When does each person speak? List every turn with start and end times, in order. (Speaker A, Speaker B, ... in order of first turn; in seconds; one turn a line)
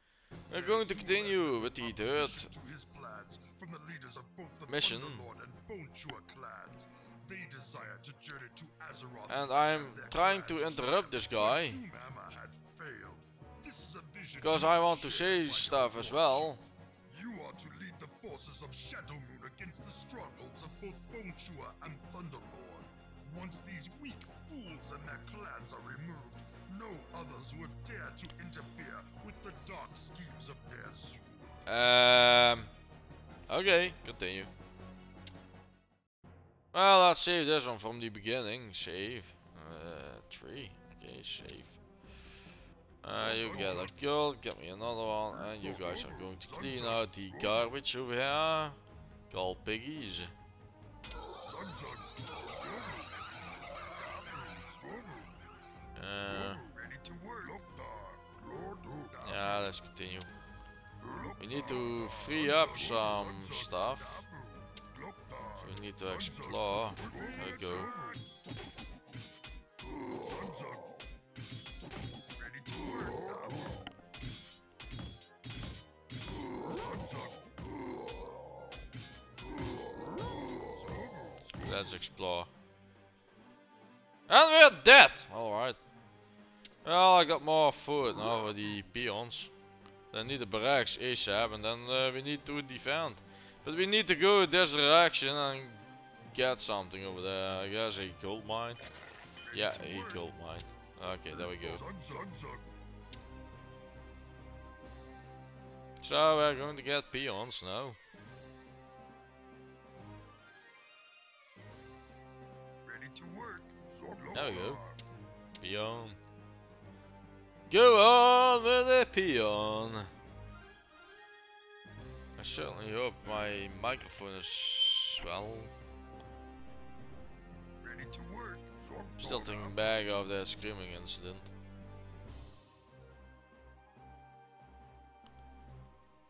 Speaker A: 0.5-2.5
Speaker B: 2.5-9.2
Speaker A: 4.7-5.3
Speaker A: 9.3-11.8
Speaker B: 11.8-14.9
Speaker A: 14.4-16.6
Speaker B: 17.1-31.5
Speaker A: 31.6-32.7
Speaker A: 33.5-34.5
Speaker A: 36.7-41.8
Speaker A: 43.0-48.8
Speaker A: 49.3-50.3
Speaker A: 56.0-56.7
Speaker A: 59.2-60.3
Speaker A: 61.4-64.3
Speaker A: 65.5-68.0
Speaker B: 72.7-73.5
Speaker A: 81.6-82.5
Speaker A: 84.3-85.8
Speaker A: 86.8-89.5
Speaker A: 90.1-98.8
Speaker A: 99.5-101.8
Speaker B: 102.1-102.5
Speaker A: 106.0-108.0
Speaker B: 112.9-113.6
Speaker A: 114.3-114.8
Speaker A: 115.6-116.2
Speaker A: 117.7-120.1
Speaker A: 122.4-125.7
Speaker B: 127.9-128.8
Speaker A: 129.2-131.5